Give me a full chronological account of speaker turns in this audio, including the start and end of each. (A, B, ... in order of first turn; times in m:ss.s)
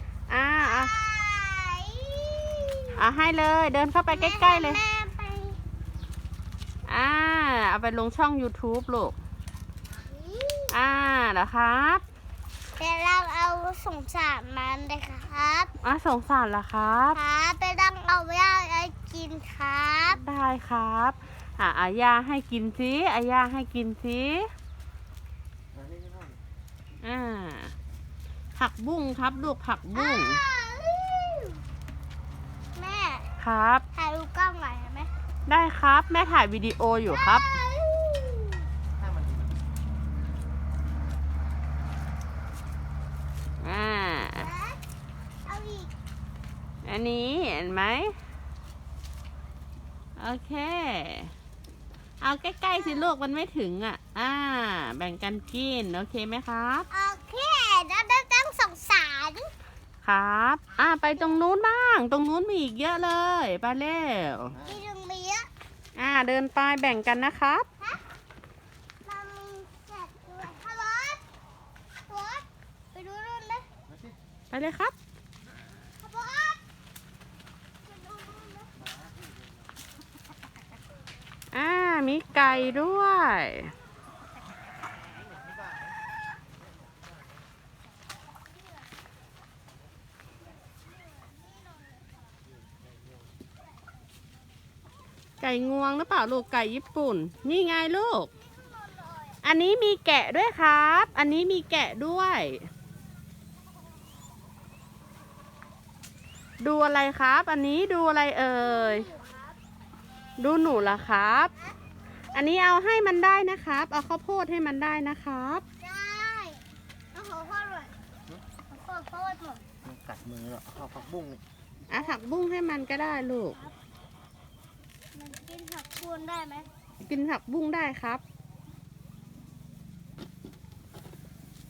0:00.3-0:00.9 A
0:00.6-0:03.0 B
0:03.0-0:04.8 A
0:04.1-0:05.6 B
0:06.9-0:09.2 A
0:10.0-0:10.8 B
0:10.7-0:12.0 A
0:12.8-0:15.7 B
0:15.8-0:17.2 A
0:17.1-0:20.2 B
0:20.1-0:24.5 A
0:25.7-0:26.4 C
0:27.0-0:27.7 A
0:28.6-0:30.4 A
0:29.9-0:31.6 B
0:32.8-0:33.3 B
0:33.4-0:33.8 A
0:33.9-0:35.1 B
0:35.5-0:37.5 A
0:37.0-0:38.7 B
0:43.6-0:44.5 A
0:44.3-0:44.8 B
0:45.4-0:45.9 B
0:46.8-0:48.2 A
0:50.2-0:51.3 A
0:52.2-0:56.9 A
0:52.7-0:53.1 B
0:56.9-0:59.5 B
1:00.0-1:04.6 A
1:04.5-1:04.8 C
1:04.6-1:05.5 B
1:05.9-1:07.6 A
1:09.0-1:11.2 B
1:12.1-1:13.7 B
1:14.5-1:14.9 A
1:16.0-1:16.6 B
1:17.8-1:18.7 B
1:21.5-1:23.7 A
1:31.0-1:32.2 B
1:35.4-1:38.3 A
1:38.4-1:39.4 B
1:39.4-1:42.7 A
1:46.6-1:49.1 A
1:48.6-1:49.6 B
1:50.4-1:51.5 A
1:52.3-1:55.6 A
1:55.8-1:56.6 B
1:57.1-1:57.9 B
1:58.7-1:59.6 B
1:59.8-2:01.4 C
2:01.9-2:03.6 A
2:05.1-2:06.7 B
2:07.0-2:08.2 A